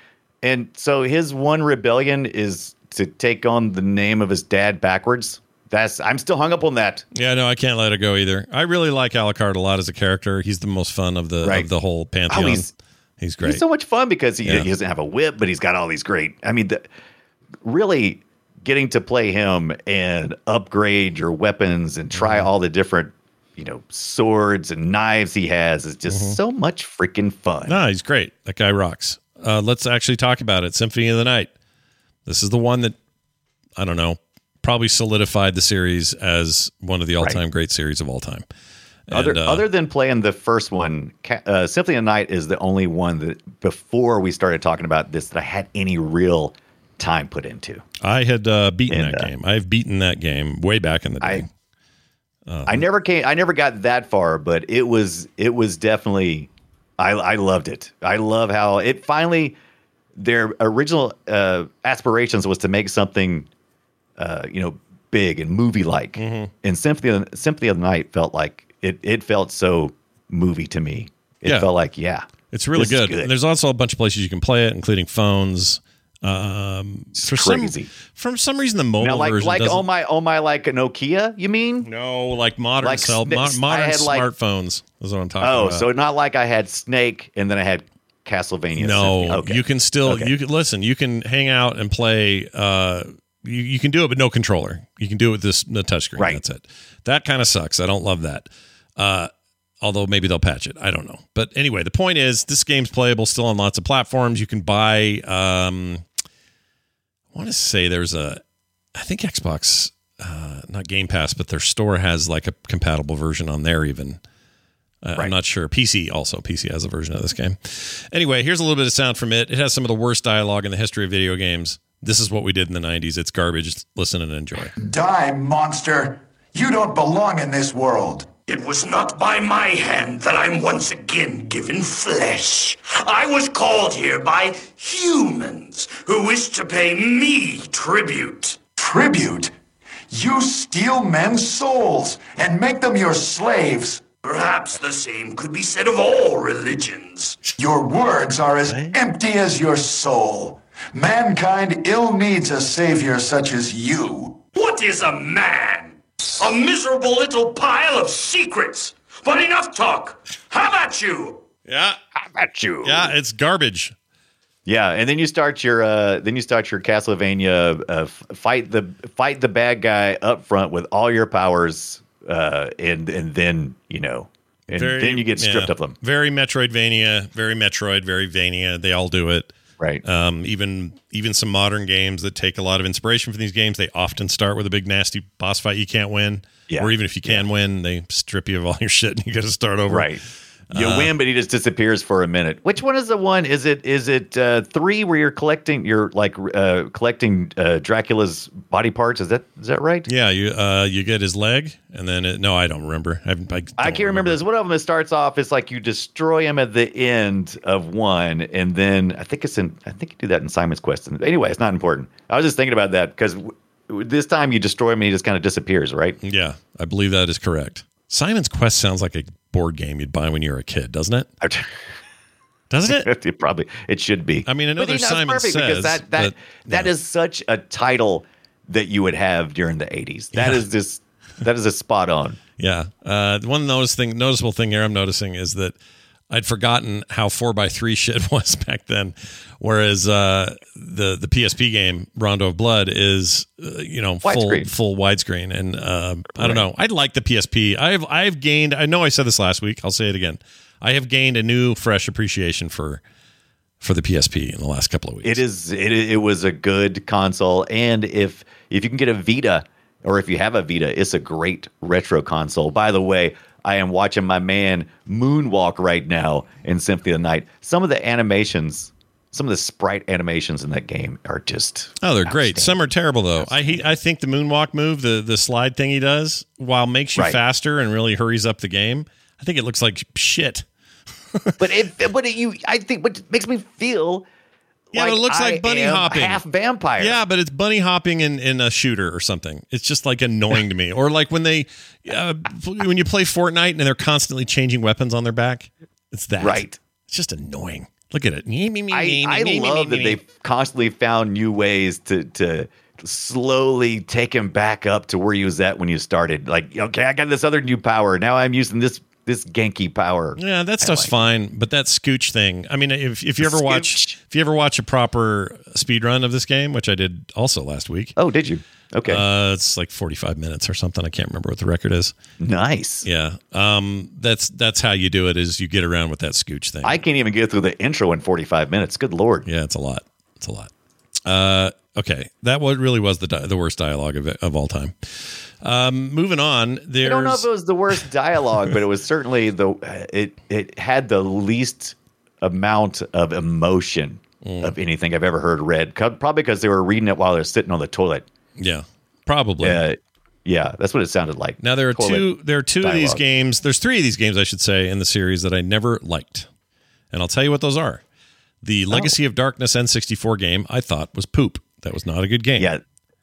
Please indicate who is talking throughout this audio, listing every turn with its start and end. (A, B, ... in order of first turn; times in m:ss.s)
0:00.4-0:07.0 A
0:07.1-0:12.7 B
0:11.4-0:11.7 A
0:12.3-0:12.7 A
0:13.2-0:13.6 B
0:13.4-0:16.8 A
0:14.4-0:14.7 B
0:17.6-0:27.8 A
0:22.1-0:22.5 B
0:26.1-0:26.4 B
0:27.6-0:31.5 B
0:32.2-0:33.0 B
0:33.8-0:38.4 B
0:39.1-0:39.7 B
0:39.1-0:47.8 A
0:48.0-0:51.5 B
0:48.9-0:49.3 A
0:52.5-0:52.8 B
0:52.6-0:59.6 A
1:00.2-1:03.5 A
1:04.2-1:13.3 A
1:06.2-1:06.5 B
1:11.4-1:11.7 B
1:12.5-1:19.8 B
1:17.2-1:17.9 A
1:19.0-1:21.9 A
1:21.8-1:25.9 B
1:22.8-1:24.3 A
1:25.4-1:30.3 A
1:28.7-1:46.0 B
1:47.3-1:48.4 B
1:48.9-1:54.2 B
1:55.0-2:04.7 B
2:04.8-2:08.3 C
2:08.4-2:18.6 D
2:18.8-2:19.5 C
2:20.1-2:24.1 C
2:24.1-2:27.4 D
2:27.6-2:34.4 C
2:28.6-2:29.0 B
2:34.5-2:41.4 D
2:41.7-2:42.0 B
2:42.2-2:43.1 A
2:42.8-2:43.9 B
2:44.6-2:56.0 A
2:54.7-3:10.2 B
3:06.7-3:07.4 A
3:09.9-3:10.2 A
3:10.7-3:11.1 B
3:10.7-3:20.1 A
3:20.0-3:24.4 B
3:23.8-3:36.2 A
3:36.2-3:41.3 B
3:41.4-3:41.7 A
3:42.7-3:43.1 B
3:42.9-3:52.4 A
3:44.4-3:46.9 B
3:50.3-3:50.6 B
3:52.6-3:55.8 B
3:56.3-4:13.0 B
4:04.2-4:04.7 A
4:06.4-4:06.6 A
4:13.8-4:15.4 B
4:15.2-4:32.8 A
4:32.0-4:40.6 B
4:33.4-4:33.8 A
4:41.3-4:41.6 B
4:41.6-4:44.2 A
4:44.9-4:47.2 A
4:44.9-4:46.4 B
4:47.0-5:00.2 B
4:56.4-4:56.8 A
4:58.9-5:11.1 A
5:10.4-5:18.1 B
5:13.4-5:14.1 A
5:18.2-5:19.2 A
5:19.0-5:22.1 B
5:22.4-5:23.0 A
5:23.0-5:27.0 B
5:26.8-5:29.4 A
5:29.4-5:30.7 B
5:31.2-5:37.5 B
5:37.0-5:48.2 A
5:44.4-5:44.7 B
5:48.6-5:49.8 B
5:49.6-5:52.3 A
5:51.6-5:56.5 B
5:52.8-5:53.2 A
5:57.1-5:58.0 B
5:58.6-6:02.7 B